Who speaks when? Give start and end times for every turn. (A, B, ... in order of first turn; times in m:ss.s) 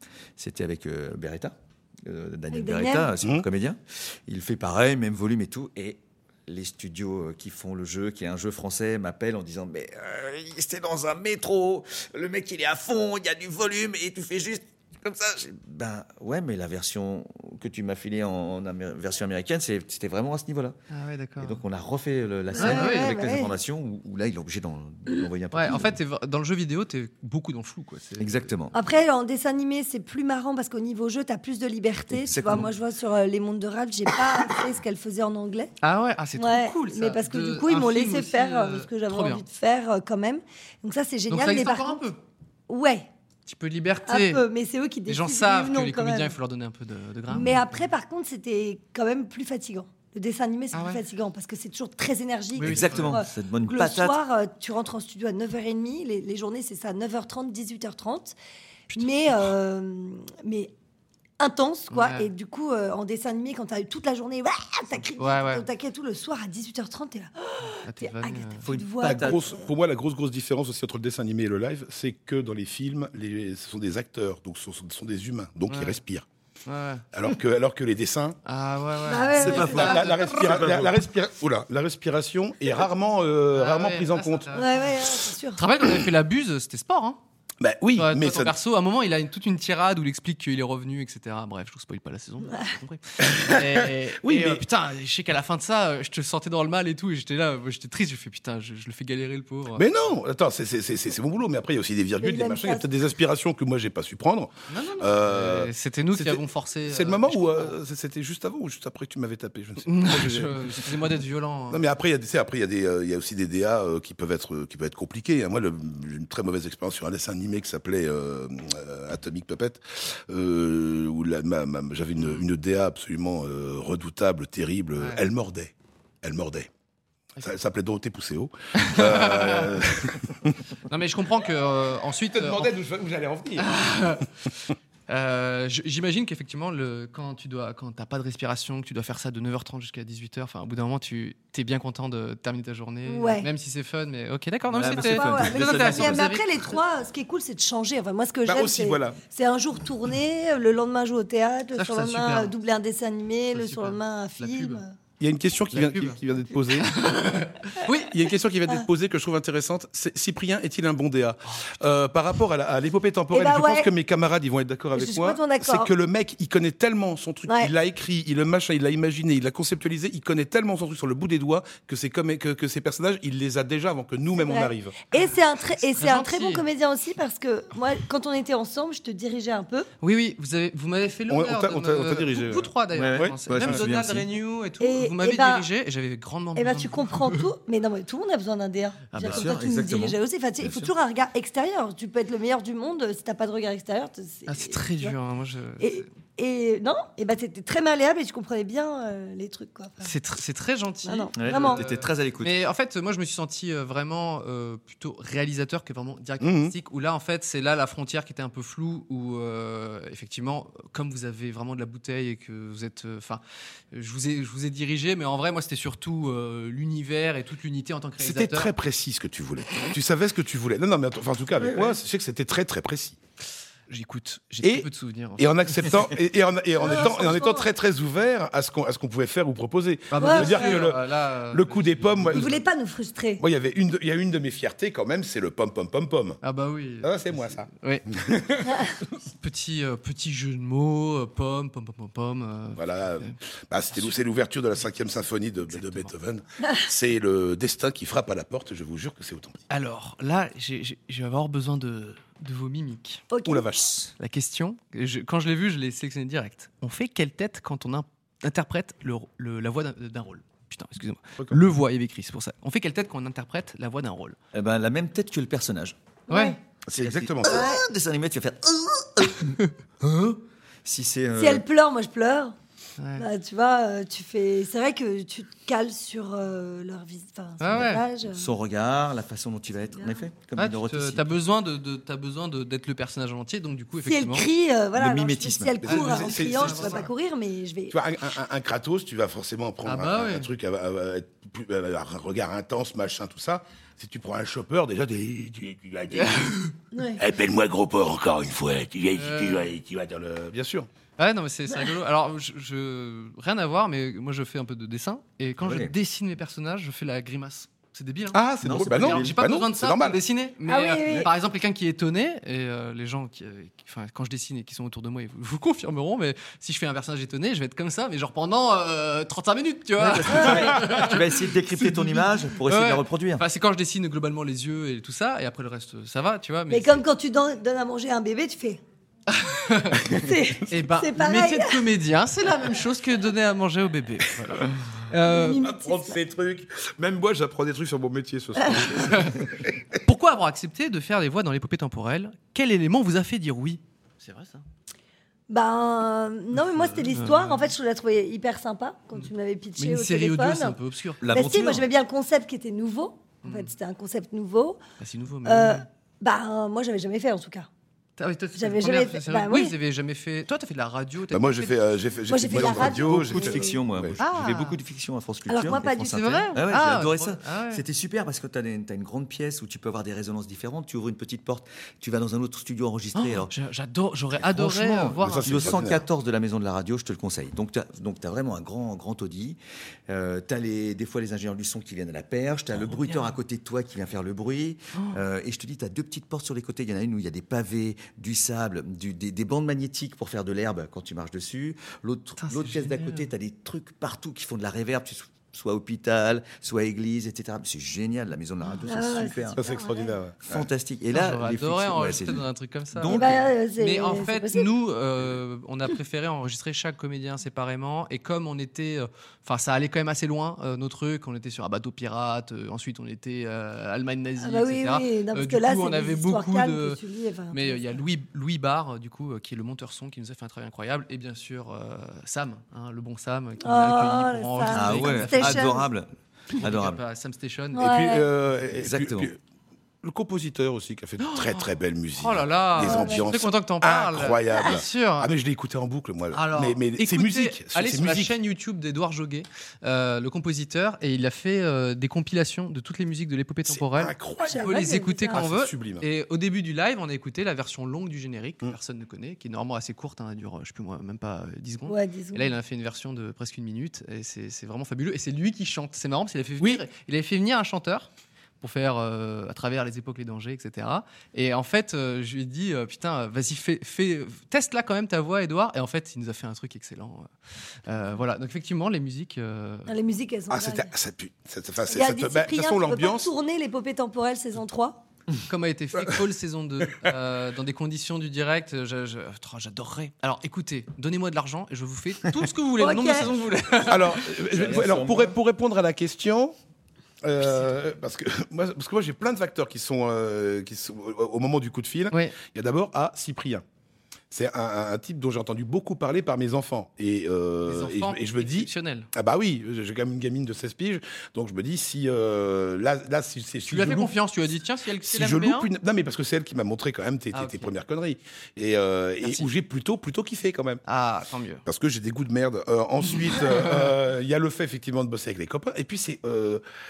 0:00.4-0:20.8 A
0:02.5-0:03.2 B
0:20.9-0:21.6 C
0:21.4-0:25.9 A
0:22.5-0:23.5 B
0:22.6-0:23.1 C
0:25.5-0:28.5 C
0:28.2-0:28.8 A
0:28.7-0:35.7 B
0:32.1-0:32.7 A
0:35.8-0:39.4 C
0:36.4-0:42.0 B
0:41.3-0:42.2 C
0:42.7-0:43.1 B
0:43.5-0:44.4 C
0:44.1-0:46.4 B
0:45.1-0:47.8 C
0:47.3-0:58.4 B
0:50.7-0:51.0 C
0:52.6-0:53.2 C
0:52.6-0:54.2 A
0:58.9-0:59.5 C
0:59.0-1:00.7 B
1:01.4-1:09.6 B
1:01.9-1:02.3 C
1:05.2-1:05.7 C
1:07.8-1:08.7 C
1:08.6-1:09.5 A
1:09.0-1:16.2 D
1:15.7-1:16.0 C
1:16.7-1:17.0 C
1:17.1-1:18.4 D
1:18.4-1:20.4 C
1:19.1-1:20.0 B
1:19.4-1:21.0 A
1:19.5-1:24.6 D
1:23.5-1:25.0 C
1:24.6-1:25.6 B
1:25.6-1:27.2 C
1:27.6-1:28.6 D
1:28.0-1:39.8 C
1:33.2-1:34.6 D
1:39.8-1:51.0 D
1:42.2-1:42.9 B
1:44.7-1:47.7 C
1:49.8-1:51.9 C
1:51.7-2:06.7 D
2:02.2-2:02.4 C
2:05.0-2:05.2 C
2:07.4-2:10.6 D
2:08.8-2:09.8 C
2:10.9-2:12.7 C
2:12.3-2:13.7 D
2:13.6-2:14.3 C
2:15.1-2:26.8 C
2:23.1-2:23.5 B
2:24.7-2:26.4 A
2:24.8-2:35.0 B
2:28.4-2:29.2 D
2:31.8-2:32.5 C
2:33.5-2:34.8 C
2:35.2-2:37.0 D
2:35.7-2:36.2 C
2:36.8-2:38.2 C
2:38.1-2:55.0 D
2:41.5-2:41.7 C
2:43.3-2:43.9 B
2:44.9-2:45.9 B
2:47.5-2:47.7 B
2:54.4-2:59.9 B
2:55.8-2:56.6 C
3:00.0-3:07.4 C
3:01.3-3:03.9 D
3:02.9-3:04.3 A
3:04.8-3:05.7 B
3:06.6-3:15.2 B
3:09.1-3:09.5 C
3:09.2-3:10.9 A
3:14.5-3:16.1 C
3:15.8-3:20.1 B
3:20.0-3:33.4 C
3:21.0-3:21.8 B
3:21.4-3:22.6 A
3:26.4-3:26.8 D
3:33.9-3:38.7 C
3:38.2-3:43.2 D
3:41.6-3:41.9 A
3:43.9-3:46.1 C
3:44.6-3:44.9 D
3:45.4-3:52.6 D
3:46.8-3:47.7 B
3:50.1-3:52.6 C
3:50.2-3:50.8 B
3:52.3-3:53.4 B
3:53.4-3:56.4 D
3:56.4-3:58.1 C
3:57.0-3:59.1 D
3:59.3-4:03.4 C
4:02.8-4:09.6 D
4:03.9-4:04.2 C
4:05.6-4:06.1 C
4:09.7-4:13.2 C
4:13.3-4:13.7 B
4:13.4-4:14.1 D
4:14.2-4:24.4 C
4:24.5-4:26.0 A
4:26.3-4:26.6 C
4:26.3-4:26.6 B
4:26.9-4:27.6 D
4:26.9-4:29.6 A
4:27.4-4:27.8 B
4:30.8-4:31.7 A
4:31.4-4:32.6 B
4:33.0-4:33.3 C
4:33.2-4:38.5 B
4:37.6-4:38.0 C
4:37.8-4:41.3 A
4:40.0-4:40.2 B
4:40.6-4:44.5 C
4:44.0-4:48.0 B
4:45.0-4:45.8 A
4:45.8-4:47.1 D
4:45.9-4:47.1 C
4:47.9-4:56.6 D
4:49.8-4:50.5 C
4:56.1-4:56.7 C
4:56.9-4:57.2 B
4:57.2-5:00.9 D
4:59.1-4:59.7 C
5:01.2-5:27.0 C
5:05.6-5:05.9 A
5:08.3-5:10.2 D
5:08.6-5:09.4 A
5:10.7-5:11.3 B
5:20.0-5:23.4 A
5:20.3-5:20.8 B
5:26.7-5:28.8 B
5:29.3-5:30.1 C
5:30.1-5:31.8 B
5:30.7-5:35.6 C
5:35.3-5:36.2 B
5:35.5-5:39.8 D
5:39.0-5:39.5 C
5:40.0-5:44.6 C
5:45.5-5:54.8 B
5:46.8-5:47.7 C
5:49.2-5:51.4 C
5:51.2-5:51.9 A
5:53.4-5:53.7 C
5:55.0-5:55.8 C
5:55.4-5:57.7 B
5:58.2-6:01.8 C
5:58.6-5:59.8 B
6:01.3-6:04.2 D
6:02.3-6:03.8 B
6:02.5-6:13.5 A
6:04.2-6:04.8 C
6:05.5-6:06.5 B
6:06.0-6:07.8 C
6:13.2-6:15.9 C
6:14.4-6:39.6 A
6:15.2-6:16.0 D
6:25.0-6:25.2 C
6:32.4-6:33.3 C
6:38.9-6:40.2 B
6:39.6-6:40.6 D
6:40.5-6:43.6 A
6:41.1-6:57.0 C
6:43.1-6:44.7 B
6:54.4-6:57.8 B
6:57.5-7:05.8 C
7:03.6-7:05.8 B
7:04.7-7:07.0 A
7:06.6-7:08.0 C
7:07.8-7:08.3 B
7:07.8-7:09.4 D
7:08.7-7:09.3 A
7:10.0-7:18.3 D
7:11.2-7:15.3 C
7:12.8-7:13.3 B
7:16.3-7:38.1 C
7:23.7-7:26.1 D
7:24.4-7:25.4 B
7:31.9-7:32.5 B
7:38.6-7:47.3 C
7:47.9-7:49.9 C
7:49.9-7:50.9 B
7:50.5-7:53.3 D
7:51.8-7:55.0 B
7:55.5-8:04.4 C
8:02.8-8:03.3 B
8:03.9-8:06.6 D
8:04.5-8:05.4 A
8:07.2-8:13.6 D
8:12.1-8:12.4 C
8:14.3-8:24.1 D
8:17.7-8:19.1 C
8:23.7-8:25.7 C
8:25.0-8:30.8 D
8:27.3-8:27.7 C
8:29.2-8:29.5 C
8:30.8-8:31.6 C
8:31.7-8:36.6 D